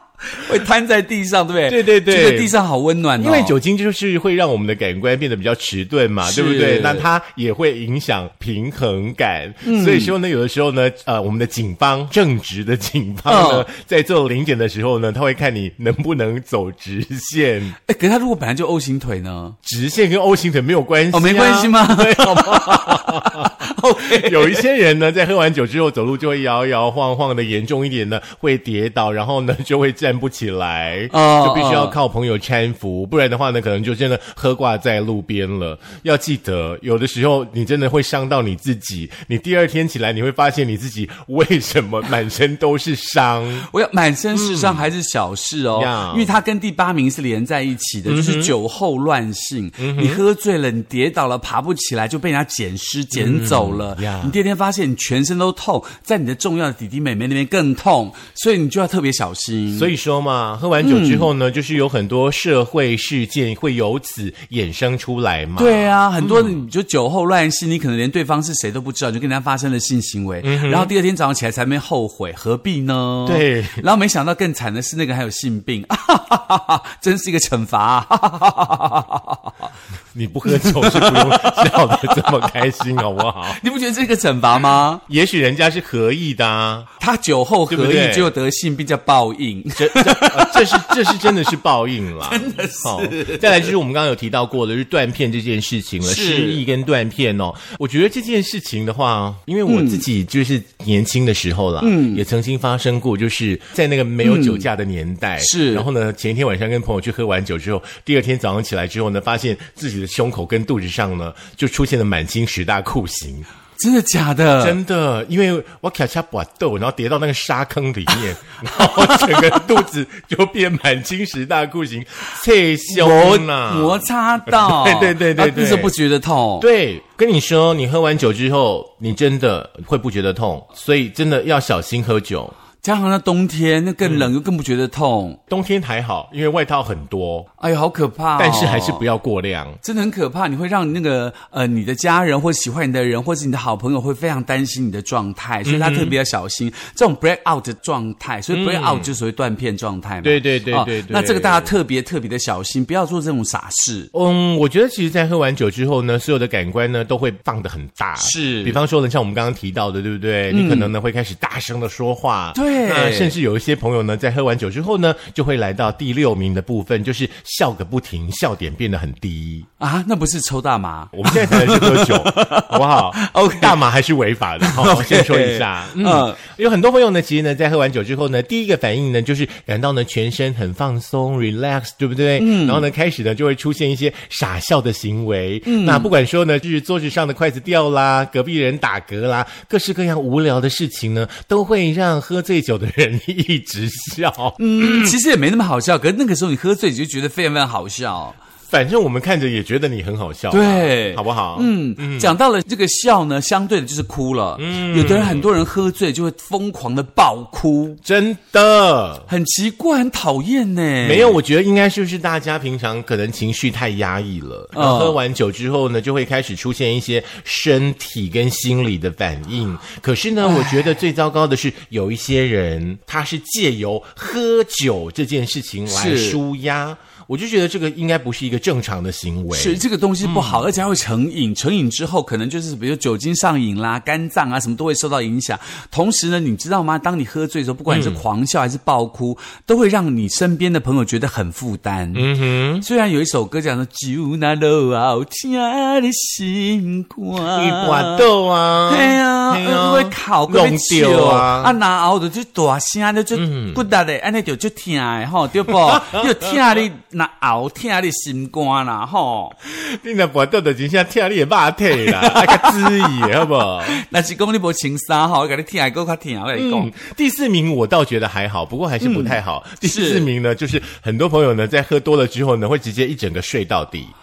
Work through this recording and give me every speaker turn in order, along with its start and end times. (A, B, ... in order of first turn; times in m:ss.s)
0:00.3-0:03.6 A
0:01.7-0:02.6 B
0:03.2-0:17.8 B
0:06.2-0:07.1 A
0:09.6-0:10.1 A
0:13.3-0:13.7 A
0:17.8-0:19.6 A
0:19.6-0:43.7 B
0:21.1-0:24.6 A
0:31.1-0:32.0 A
0:43.7-0:59.9 A
0:44.3-0:44.9 B
0:45.8-0:46.4 B
0:48.1-0:48.5 B
0:49.8-0:50.2 B
0:53.1-0:54.4 B
0:59.7-1:06.6 B
1:00.8-1:01.3 A
1:05.6-1:19.7 A
1:10.4-1:10.9 B
1:13.3-1:13.8 B
1:20.1-1:23.6 B
1:20.5-1:22.5 A
1:23.5-1:25.0 A
1:25.1-1:26.9 B
1:27.0-1:31.4 A
1:27.7-1:28.3 B
1:29.8-1:53.5 B
1:32.2-1:33.7 A
1:36.0-1:36.6 A
1:39.7-1:40.0 A
1:41.8-1:42.2 A
1:44.2-1:44.7 A
1:45.4-1:45.9 A
1:53.8-1:54.8 A
1:54.6-2:05.9 B
1:58.8-1:59.4 A
2:02.9-2:06.7 A
2:06.6-2:12.6 B
2:12.8-2:15.4 A
2:14.0-2:14.3 B
2:15.5-2:17.5 B
2:17.6-2:19.0 A
2:18.4-2:19.8 B
2:19.8-2:34.1 A
2:25.6-2:26.2 B
2:28.5-2:29.1 B
2:30.2-2:31.7 B
2:34.1-2:49.7 B
2:38.2-2:38.8 A
2:40.5-2:40.9 A
2:42.6-2:43.4 A
2:49.8-2:53.8 A
2:51.1-3:15.1 B
2:54.6-2:56.4 A
3:02.4-3:02.9 A
3:05.6-3:06.1 A
3:14.6-3:18.4 A
3:18.7-3:22.3 B
3:20.5-3:28.0 A
3:24.6-3:25.5 B
3:28.0-3:29.3 B
3:29.3-3:31.4 A
3:31.0-3:50.6 B
3:34.7-3:35.2 A
3:40.4-3:40.8 A
3:45.9-3:46.4 A
3:49.5-4:08.3 A
3:57.9-3:58.2 B
4:02.1-4:02.8 B
4:07.4-4:11.8 B
4:08.9-4:19.6 A
4:13.4-4:13.8 B
4:15.7-4:16.6 B
4:19.6-4:24.0 B
4:22.0-4:26.9 A
4:26.6-4:34.1 B
4:29.0-4:30.3 A